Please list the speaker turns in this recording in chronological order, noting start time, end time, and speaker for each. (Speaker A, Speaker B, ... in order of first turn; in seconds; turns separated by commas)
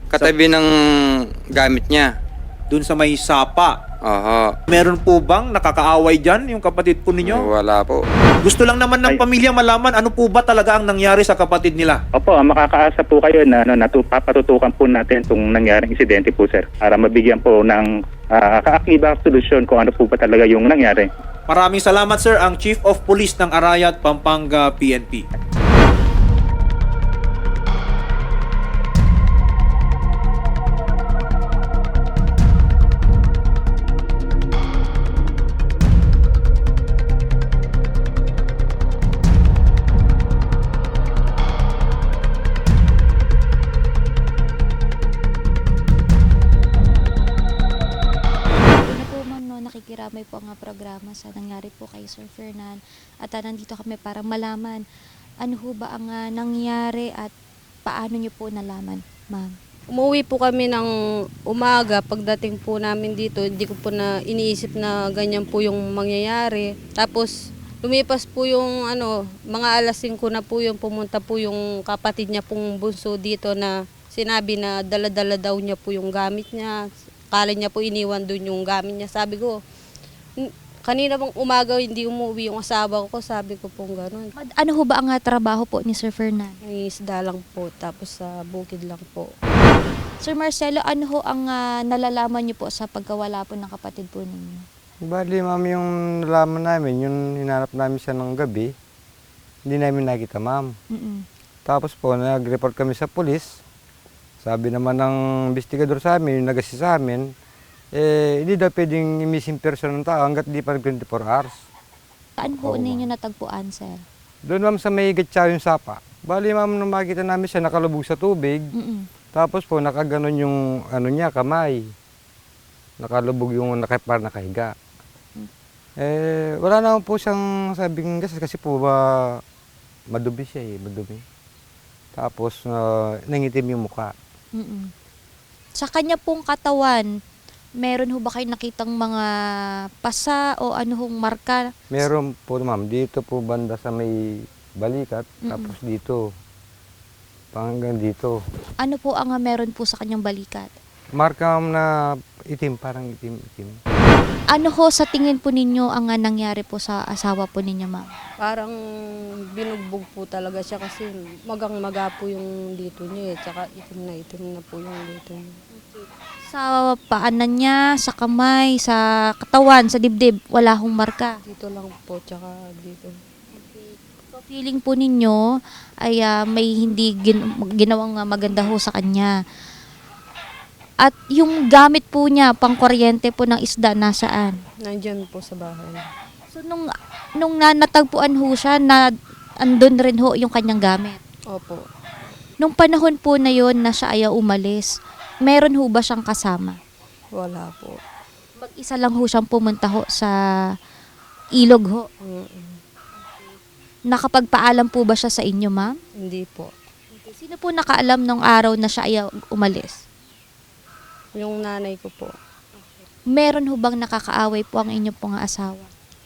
Speaker A: 0.2-0.6, Speaker A: 1.6-2.0, Speaker B: 2.7-3.8, Speaker A: 4.1-4.4, Speaker B: 4.7-7.5, Speaker C: 7.2-7.5, Speaker A: 7.2-8.0, Speaker B: 8.4-12.0, Speaker C: 12.1-21.1, Speaker B: 21.5-25.2, Speaker D: 48.8-54.8, Speaker D: 55.4-57.3, Speaker D: 57.9-59.5, Speaker E: 59.9-60.9, Speaker E: 61.5-67.3, Speaker E: 67.8-76.7, Speaker E: 77.3-79.5, Speaker E: 80.9-84.3, Speaker D: 84.4-86.5, Speaker E: 86.7-89.3, Speaker D: 90.2-94.6, Speaker F: 95.0-98.7, Speaker F: 99.7-100.7, Speaker D: 100.9-101.2, Speaker F: 101.7-103.5, Speaker F: 104.4-107.3, Speaker F: 108.0-111.5, Speaker D: 112.4-114.0, Speaker F: 112.6-113.1, Speaker F: 114.4-118.7, Speaker D: 118.8-119.1, Speaker F: 119.3-121.8, Speaker F: 123.0-124.7, Speaker F: 126.0-129.4, Speaker F: 130.1-131.2, Speaker F: 132.2-134.1, Speaker D: 134.6-134.9, Speaker D: 135.8-137.1, Speaker D: 137.8-139.3, Speaker D: 140.0-142.1, Speaker F: 141.9-144.1, Speaker F: 144.8-146.2, Speaker D: 145.5-145.7, Speaker F: 147.5-148.4, Speaker D: 148.8-150.7, Speaker F: 151.2-151.9, Speaker F: 152.5-153.8, Speaker D: 154.5-158.1, Speaker E: 158.4-158.7, Speaker E: 159.5-166.0, Speaker D: 166.5-171.4, Speaker E: 171.5-173.1, Speaker D: 174.3-175.4, Speaker D: 176.0-179.3, Speaker D: 181.0-184.6, Speaker E: 184.8-186.1, Speaker D: 186.5-186.8, Speaker D: 187.4-189.1, Speaker D: 189.6-191.2, Speaker E: 191.5-191.8, Speaker D: 192.6-194.9, Speaker D: 195.4-196.8, Speaker E: 197.3-198.0, Speaker D: 198.6-200.3, Speaker D: 201.6-202.1, Speaker E: 202.2-202.8, Speaker D: 204.1-205.9, Speaker E: 206.2-206.7, Speaker D: 207.2-210.0, Speaker E: 211.4-213.0, Speaker D: 213.3-215.9